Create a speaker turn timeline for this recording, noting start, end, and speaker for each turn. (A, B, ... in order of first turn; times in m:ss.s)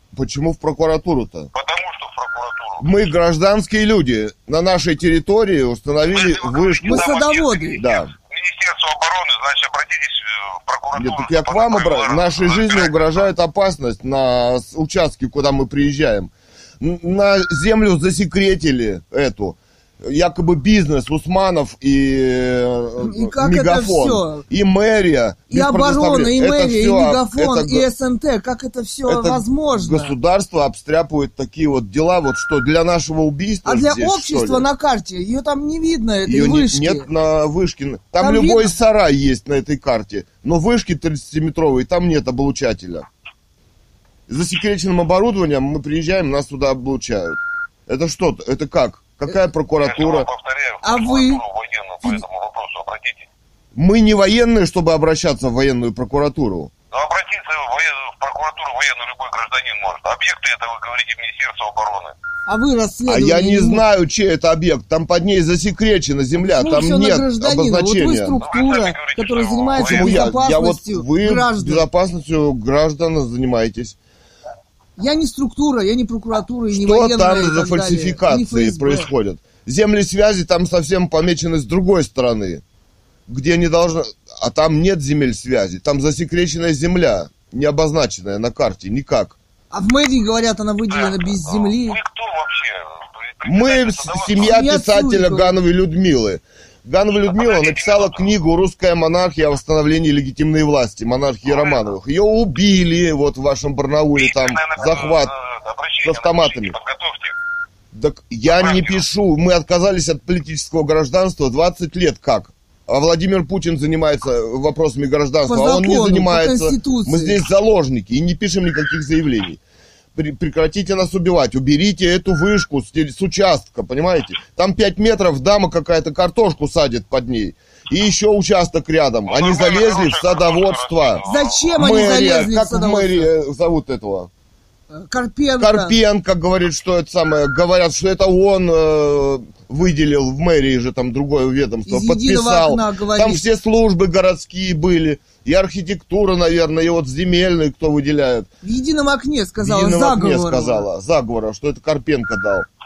0:00.1-0:01.5 A
0:01.5-0:02.8 B
0:02.8-0:07.2 A
0:06.1-0:13.3 B
0:06.8-0:07.8 C
0:07.7-0:08.1 A
0:11.0-0:27.9 A
0:23.0-0:24.4 C
0:25.5-0:30.2 C
0:29.1-0:34.7 A
0:33.6-0:37.1 C
0:36.3-0:43.1 A
0:38.2-0:38.7 C
0:44.3-0:50.3 A
0:49.8-0:53.3 B
0:50.8-0:51.4 C
0:53.8-0:56.7 A
0:56.9-1:02.2 B
1:02.5-1:03.8 C
1:03.1-1:08.4 A
1:06.4-1:11.9 C
1:08.5-1:10.3 B
1:09.8-1:14.0 A
1:15.0-1:19.1 C
1:16.7-1:22.6 A
1:23.3-1:29.4 A
1:29.7-1:32.0 C
1:30.9-1:34.5 B
1:33.4-1:45.3 A
1:34.4-1:35.5 C
1:37.3-1:38.3 B
1:41.5-1:41.8 B
1:44.2-1:47.4 B
1:46.0-1:46.8 A
1:47.9-1:59.6 A
1:48.5-1:49.0 B
1:55.4-1:57.4 C
2:00.2-2:11.2 A
2:09.3-2:11.7 B
2:11.3-2:13.3 C
2:11.8-2:14.3 A
2:14.9-2:16.0 C
2:15.6-2:28.5 A
2:21.9-2:23.4 C
2:28.6-2:30.9 C
2:29.6-2:32.7 A